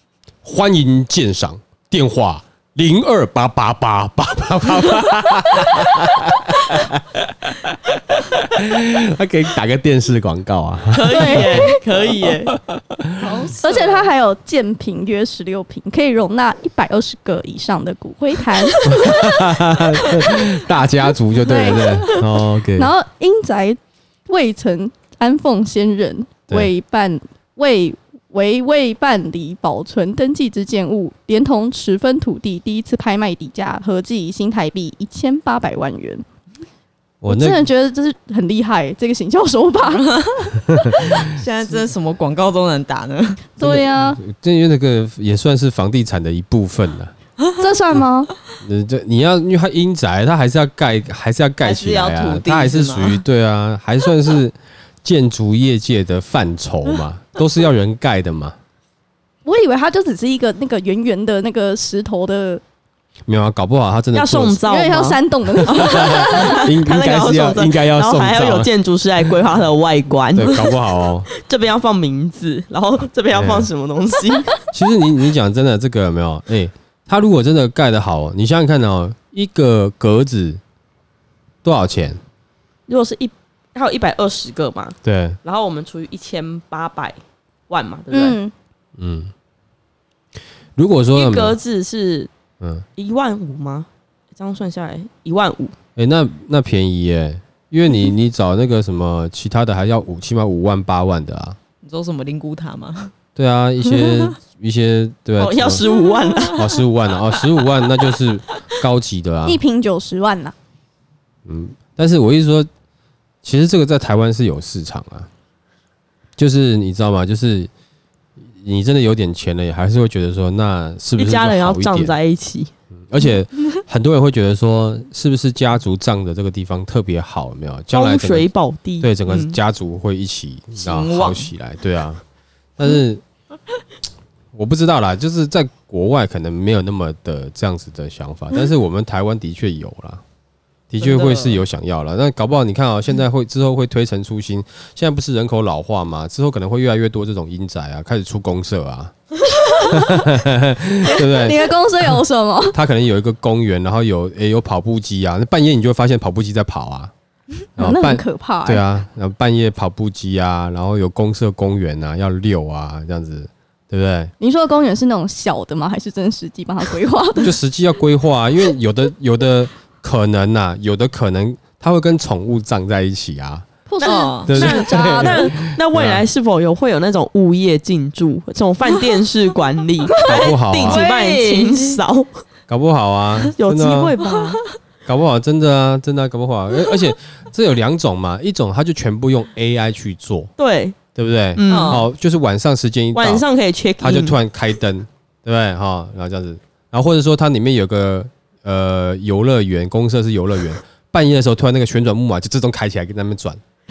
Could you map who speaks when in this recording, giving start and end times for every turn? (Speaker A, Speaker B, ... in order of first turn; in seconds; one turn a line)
Speaker A: 0.4-11.7
Speaker B: 10.9-12.6
Speaker C: 11.1-11.8
Speaker A: 12.5-13.1
Speaker D: 13.2-14.1
Speaker C: 13.5-19.3
Speaker A: 18.9-22.9
Speaker C: 21.4-22.2
Speaker C: 22.7-36.2
Speaker A: 37.2-37.6
Speaker C: 37.3-40.7
Speaker D: 41.0-43.5
Speaker C: 43.6-44.2
Speaker A: 43.6-47.1
Speaker C: 47.6-48.3
Speaker A: 48.6-58.5
Speaker D: 51.6-53.2
Speaker C: 59.5-62.6
Speaker A: 63.3-64.6
Speaker B: 64.1-74.6
Speaker C: 64.7-66.6
Speaker A: 65.7-68.7
Speaker A: 70.3-71.3
Speaker A: 73.3-73.7
Speaker A: 74.7-80.6
Speaker A: 81.6-82.2
Speaker B: 82.9-87.2
Speaker A: 85.0-85.4
Speaker B: 87.7-88.4
Speaker C: 88.1-88.5
Speaker A: 89.0-89.3
Speaker A: 90.8-91.6
Speaker B: 91.1-92.3
Speaker B: 93.0-95.8
Speaker A: 96.0-101.6
Speaker D: 101.8-103.1
Speaker A: 103.4-105.8
Speaker B: 105.4-106.7
Speaker A: 106.5-109.6
Speaker C: 109.5-110.5
Speaker A: 111.5-112.7
Speaker A: 113.4-115.3
Speaker A: 116.4-117.7
Speaker A: 118.6-122.1
Speaker B: 121.2-122.7
Speaker A: 123.0-128.5
Speaker B: 127.9-129.6
Speaker A: 129.0-132.2
Speaker D: 130.8-131.5
Speaker A: 132.8-133.2
Speaker A: 134.5-140.2
Speaker A: 140.9-149.1
Speaker D: 141.0-141.6
Speaker A: 149.8-152.2
Speaker C: 151.0-152.8
Speaker A: 152.7-157.1
Speaker A: 157.8-164.3
Speaker C: 157.8-158.8
Speaker C: 164.4-167.6
Speaker A: 167.4-173.7
Speaker C: 173.9-175.5
Speaker B: 174.0-182.3
Speaker D: 174.0-174.6
Speaker A: 174.4-176.2
Speaker A: 180.2-181.0
Speaker D: 180.8-182.0
Speaker A: 182.7-184.2
Speaker B: 183.6-184.6
Speaker A: 185.1-190.5
Speaker B: 190.6-191.0
Speaker A: 191.2-193.5
Speaker B: 191.6-192.1
Speaker D: 191.7-192.1
Speaker B: 193.1-194.4
Speaker A: 194.0-203.6